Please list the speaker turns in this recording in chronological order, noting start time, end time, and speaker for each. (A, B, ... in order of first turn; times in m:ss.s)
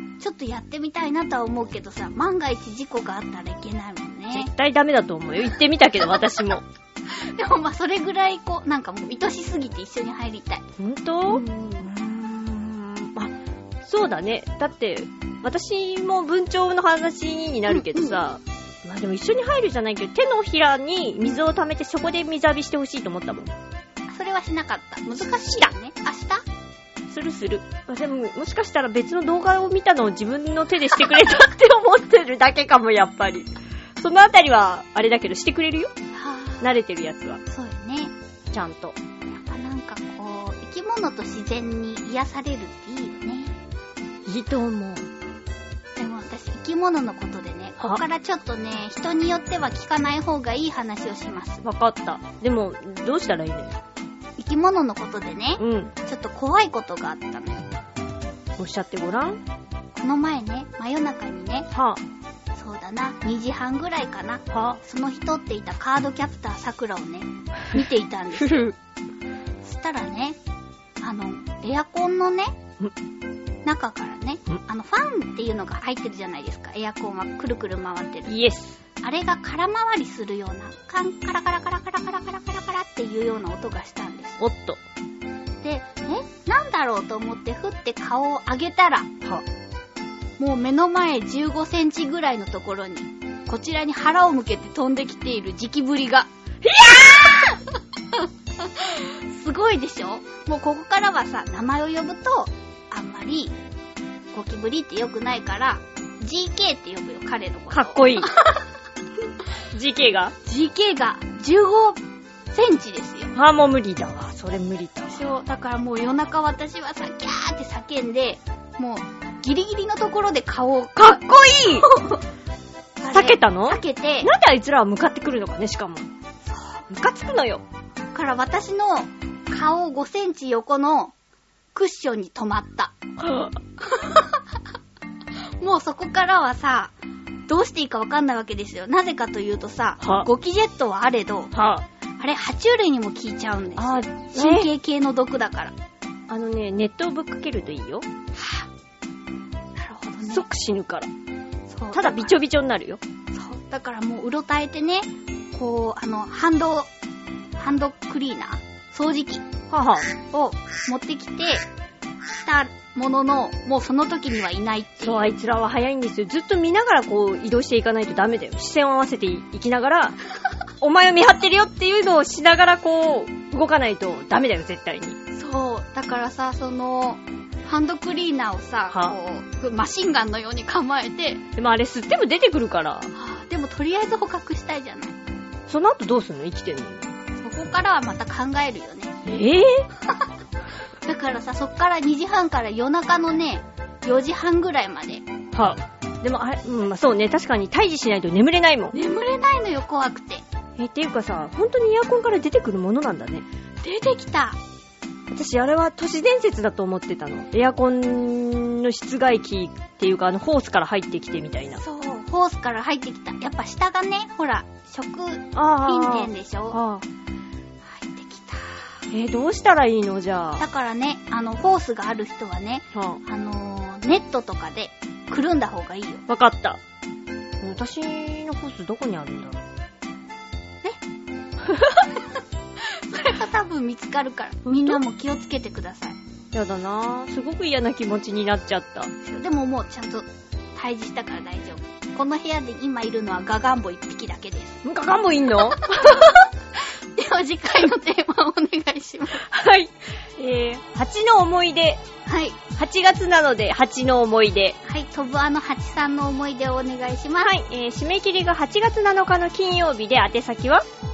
0:00.2-0:04.5 A
0:04.3-0:06.6 B
0:07.1-0:10.6 A
0:10.8-0:23.5 B
0:11.3-0:11.9 A
0:17.7-0:18.2 A
0:24.1-0:26.4 A
0:25.1-0:25.7 B
0:27.1-0:35.9 B
0:36.1-0:36.7 A
0:36.6-0:37.4 B
0:37.4-0:38.1 A
0:38.5-0:39.0 B
0:39.3-0:43.6 A
0:44.2-0:45.1 B
0:46.0-0:51.6 A
0:51.6-0:53.8 B
0:54.4-0:57.6 A
0:55.6-0:55.9 B
0:58.6-0:59.4 B
0:59.9-1:01.7 A
1:01.7-1:02.0 B
1:02.5-1:08.7 A
1:04.5-1:04.8 B
1:08.3-1:08.7 B
1:09.6-1:10.4 A
1:11.0-1:12.6 A
1:13.6-1:18.4 A
1:18.3-1:18.8 B
1:19.0-1:24.4 A
1:24.4-1:24.8 B
1:25.6-1:29.1 A
1:30.4-1:36.3 A
1:36.6-1:37.5 B
1:37.1-1:37.6 A
1:38.2-1:43.5 A
1:44.3-1:48.6 A
1:47.7-1:48.3 B
1:49.7-1:50.3 B
1:50.4-1:52.0 A
1:52.5-1:53.3 A
1:53.3-1:55.2 B
1:55.1-2:02.2 A
2:01.0-2:01.9 B
2:03.0-2:04.3 A
2:03.1-2:06.1 B
2:06.4-2:06.8 A
2:06.9-2:07.6 B
2:08.1-2:11.1 A
2:11.7-2:12.9 A
2:13.2-2:13.5 B
2:13.8-2:14.4 A
2:15.6-2:16.9 A
2:17.5-2:21.5 A
2:20.0-2:20.3 B
2:21.5-2:21.8 B
2:22.2-2:25.7 A
2:23.8-2:24.7 B
2:26.3-2:28.0 B
2:28.3-2:28.7 A
2:29.8-2:30.4 A
2:30.2-2:31.1 B
2:31.7-2:32.4 A
2:31.9-2:33.0 B
2:33.3-2:36.9 A
2:37.6-2:39.4 A
2:39.7-2:40.1 B
2:40.2-2:41.6 A
2:42.3-2:45.3 A
2:45.0-2:50.2 B
2:50.8-2:55.2 B
2:55.3-3:01.4 A
2:58.9-2:59.2 B
3:01.6-3:03.1 B
3:03.1-3:05.2 A
3:05.7-3:07.1 B
3:07.4-3:09.1 A
3:09.2-3:09.8 B
3:11.0-3:15.2 A
3:15.5-3:19.0 B
3:18.9-3:20.4 A
3:20.8-3:23.4 B
3:23.8-3:24.6 A
3:25.3-3:31.8 B
3:31.8-3:36.8 A
3:35.5-3:37.0 B
3:37.8-3:39.0 A
3:39.1-3:40.6 B
3:40.6-3:46.2 A
3:42.9-3:43.2 B
3:46.3-3:46.8 B
3:47.6-3:49.6 B
3:51.9-3:52.2 A
3:52.8-3:56.2 A
3:56.5-3:59.1 B
3:59.2-4:04.8 A
4:04.8-4:06.3 B
4:05.8-4:06.4 A
4:07.1-4:09.4 A
4:09.4-4:12.0 B
4:12.2-4:12.6 A
4:12.8-4:14.8 B
4:14.8-4:17.5 A
4:17.4-4:20.8 B